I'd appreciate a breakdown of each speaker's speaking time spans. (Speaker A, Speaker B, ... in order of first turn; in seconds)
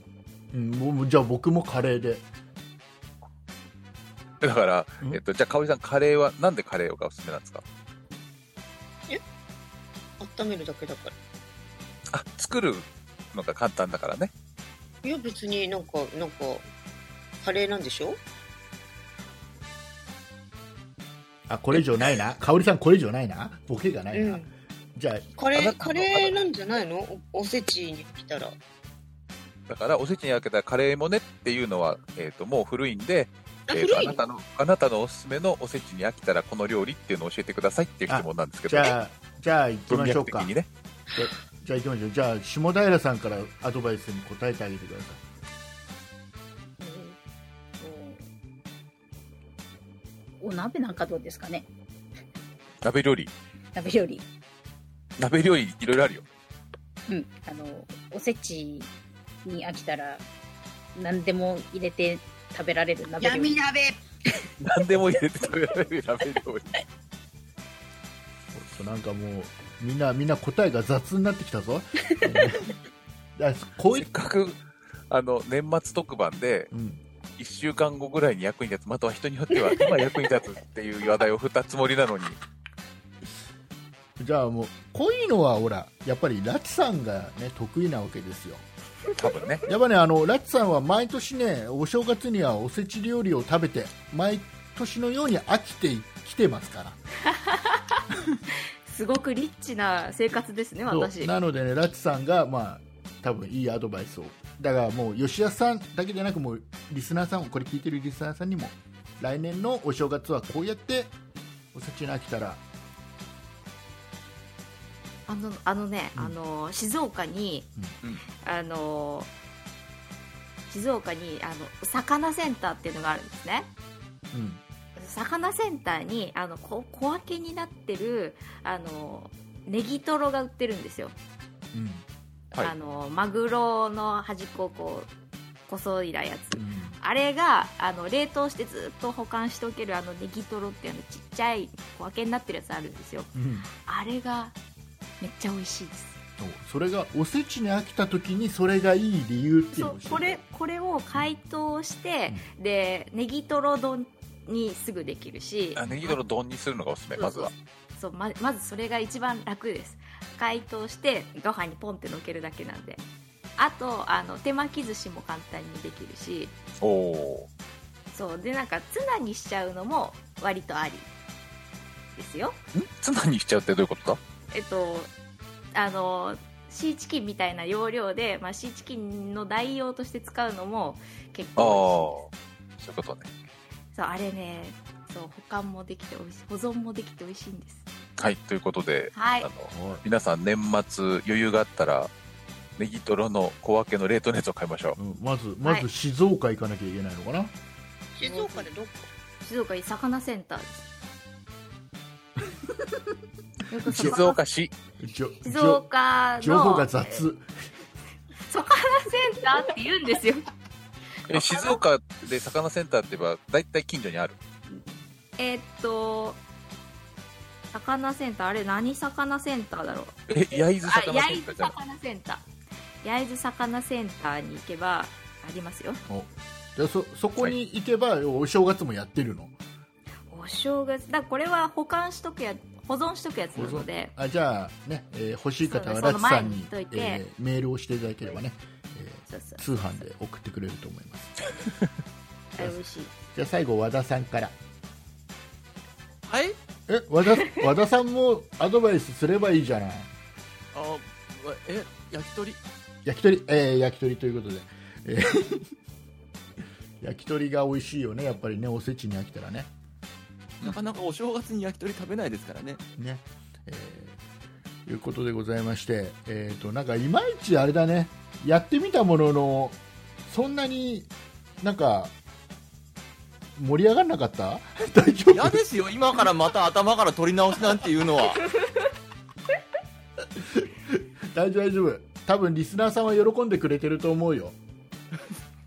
Speaker A: 0.5-2.3, 21.5-24.4, 25.0-25.3, 38.1-40.5, 41.1-45.2, 68.5-72.8, 73.4-74.1, 76.7-77.0, 84.2-88.7, 89.7-97.0, 100.9-111.1, 111.7-112.6, 124.3-124.6, 131.7-132.1, 136.5-137.0, 143.3-143.7, 146.4-150.4, 189.7-190.0, 195.0-197.5, 203.9-204.2, 205.0-205.8, 206.4-207.5, 226.1-229.6, 233.6-241.4, 243.3-244.6, 246.9-250.1, 253.1-255.7, 257.0-259.7, 263.0-264.2, 264.9-272.1, 273.6-275.6, 280.4-284.6
Speaker B: 4.4-7.6, 12.1-14.3, 25.5-26.4, 29.7-39.0, 39.9-40.7, 52.8-53.3, 55.2-56.2, 64.6-66.8, 73.9-76.7, 77.4-82.4, 89.2-89.7, 155.8-157.5, 166.8-167.5, 172.8-174.2, 181.6-183.3, 188.2-192.1, 192.8-195.0, 203.9-204.7, 211.3-214.4, 220.3-221.7
Speaker C: 10.2-11.1, 15.0-16.7, 17.4-18.2, 24.1-24.5, 25.4-28.6, 33.7-34.2, 63.2-64.0, 198.2-199.1
Speaker D: 46.8-47.2, 47.8-48.2, 50.4-51.7, 53.8-54.2, 57.1-58.9, 59.5-60.2, 61.0-63.5
Speaker E: 98.9-101.3, 115.3-117.7, 118.4-119.3, 120.7-123.7, 125.0-131.2, 132.6-135.1, 135.7-143.3, 143.8-144.6, 145.2-146.2, 149.7-156.2, 157.2-163.0, 163.6-166.6, 168.1-171.1, 172.2-172.6, 174.5-175.1, 175.7-182.2, 183.9-187.8, 189.1-189.5, 198.2-198.7, 199.4-200.9, 203.7-204.4, 205.4-207.2, 208.5-210.5, 211.3-211.8, 215.4-216.4, 217.7-222.5, 223.0-226.0, 230.3-234.1, 235.6-237.2, 239.3-240.0, 242.6-243.1
Speaker F: 246.3-246.6, 250.7-252.6, 260.6-262.8, 275.3-278.5